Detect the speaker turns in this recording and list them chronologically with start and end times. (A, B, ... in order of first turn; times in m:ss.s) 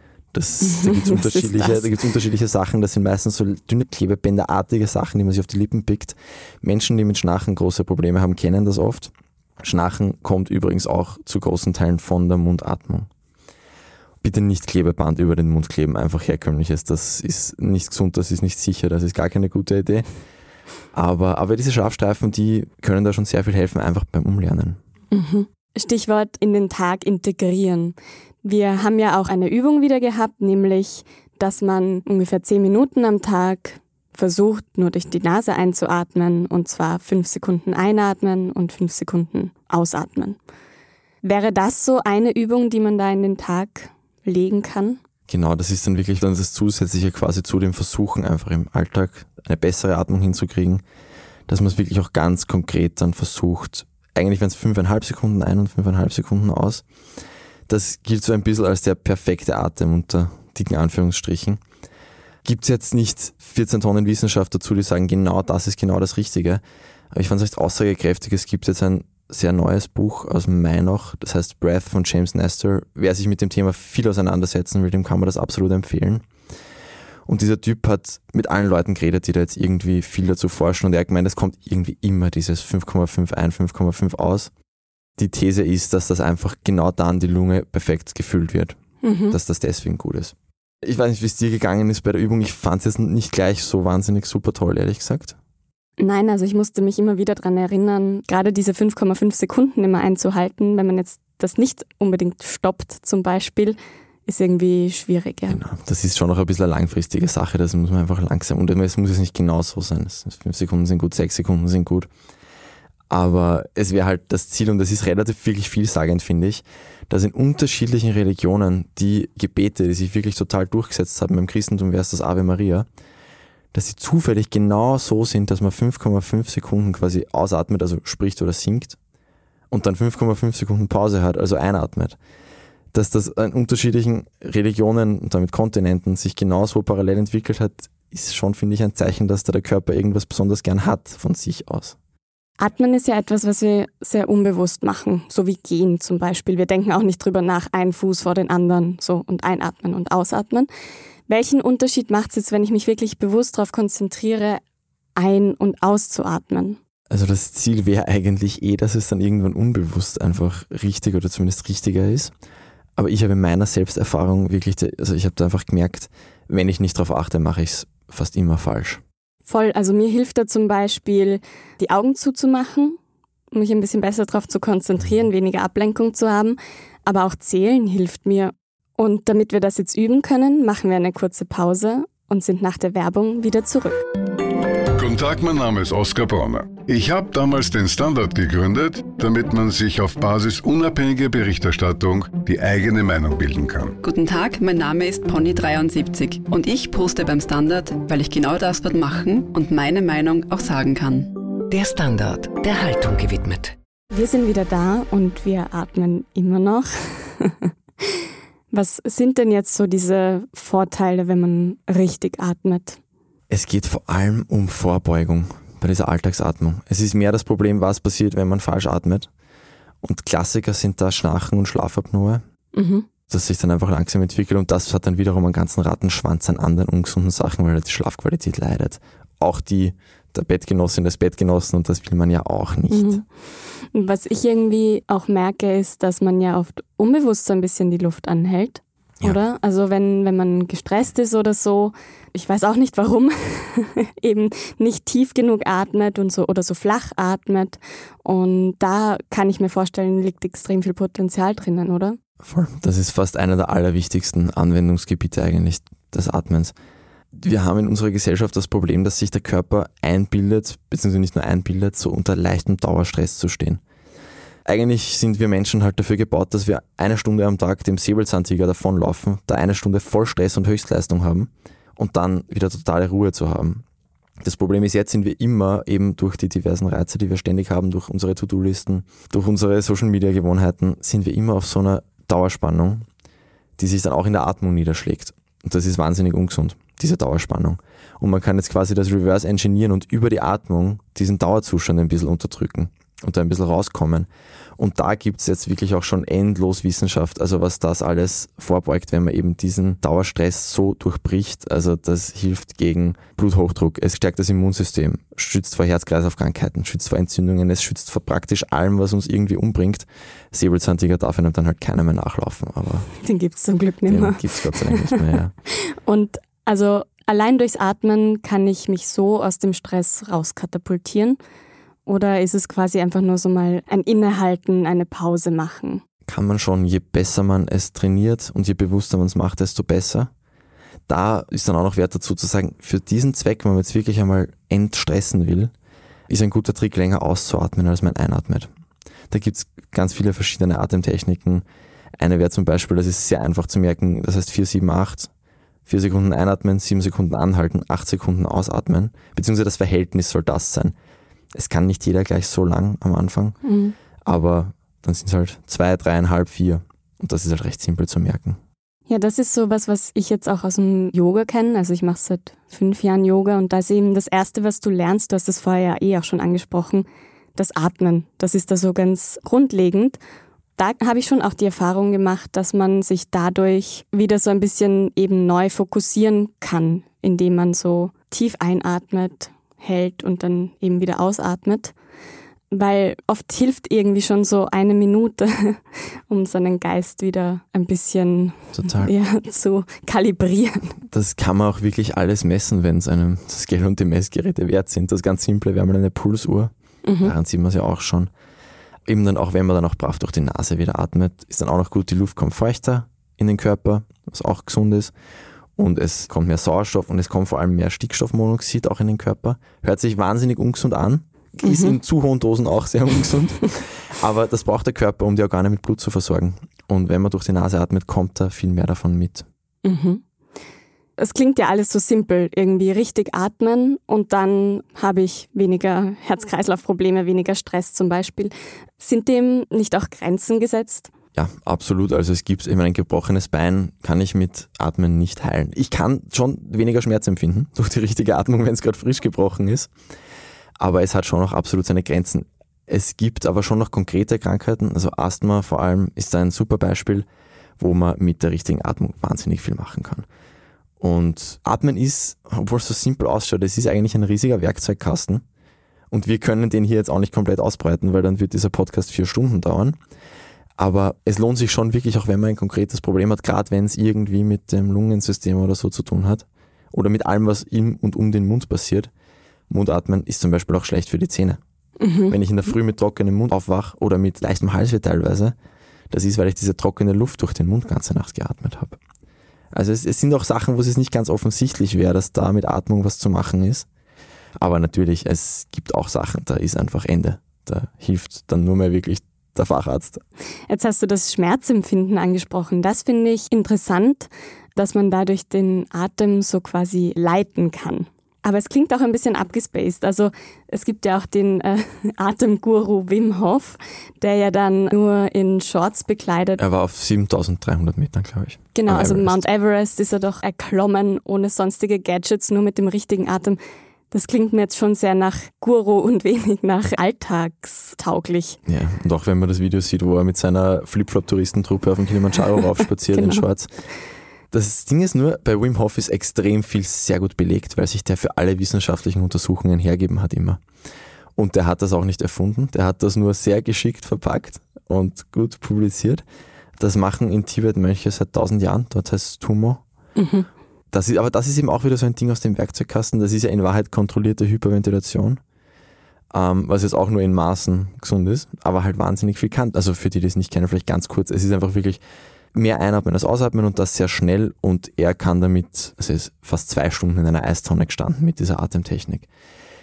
0:00.3-0:13.1 A
0:00.6-0:02.0 B
0:14.2-0:20.1 A
0:20.9-0:24.8 A
0:25.1-0:40.4 B
0:41.2-0:45.0 B
0:45.3-0:50.8 A
0:51.5-0:56.8 A
0:57.7-1:01.6 A
1:02.4-1:16.2 A
1:17.2-1:24.5 A
1:25.2-1:28.8 A
1:29.0-1:29.4 B
1:29.3-1:35.4 A
1:36.0-1:45.6 B
1:45.5-1:52.1 A
1:53.1-2:02.9 A
2:03.7-2:09.0 A
2:09.7-2:12.2 A
2:12.9-2:22.0 A
2:22.6-2:30.7 B
2:31.3-2:34.6 B
2:35.2-2:36.8 B
2:37.1-2:42.3 A
2:43.0-2:49.0 A
2:49.5-2:53.0 B
2:53.5-3:04.0 B
3:05.0-3:14.0 C
3:14.0-3:21.3 D
3:21.7-3:23.7 E
3:24.1-3:33.0 B
3:33.5-3:39.3 A
3:40.0-3:42.4 A
3:42.7-3:43.1 B
3:43.3-3:53.2 A
3:52.9-3:53.2 B
3:53.9-4:12.2 B
4:12.4-4:16.7 A
4:17.3-4:23.8 A
4:24.6-4:33.8 A
4:34.4-4:43.1 A
4:43.8-5:13.1 A
5:13.2-5:15.2 B
5:14.1-5:15.5 A
5:15.7-5:21.4 B
5:22.0-5:26.0 B
5:26.3-5:30.3 A
5:31.1-5:35.7 A
5:36.3-5:38.7 A
5:39.3-5:41.6 A
5:42.2-5:45.3 A
5:45.8-5:50.9 A
5:51.5-5:53.6 A
5:53.6-5:53.9 B
5:54.2-5:58.6 A
5:59.1-6:10.2 B
6:10.8-6:21.9 B
6:22.7-6:31.0 B
6:28.7-6:29.1 A
6:31.1-6:38.3 A
6:37.0-6:37.3 B
6:39.0-6:45.1 A
6:45.8-6:59.5 A
6:51.6-6:52.0 B
6:59.8-7:00.2 B
7:01.2-7:11.1 B
7:11.3-7:19.9 A
7:20.8-7:27.3 A
7:27.8-7:30.3 A
7:31.0-7:35.4 A
7:36.1-7:40.0 A
7:40.8-7:49.1 A
7:49.7-7:51.6 A
7:52.0-7:52.4 B
7:52.3-7:55.5 A
7:56.1-7:59.0 A
7:59.7-8:03.9 A
8:04.6-8:10.2 A
8:10.7-8:26.6 B
8:26.6-8:29.4 A
8:28.7-8:33.6 B
8:34.1-8:38.6 B
8:38.6-8:43.7 A
8:43.1-8:43.4 B
8:44.5-8:50.6 A
8:51.4-8:56.2 A
8:56.8-8:59.8 A
9:00.2-9:00.5 B
9:00.9-9:05.4 A
9:06.3-9:12.0 A
9:12.5-9:19.3 A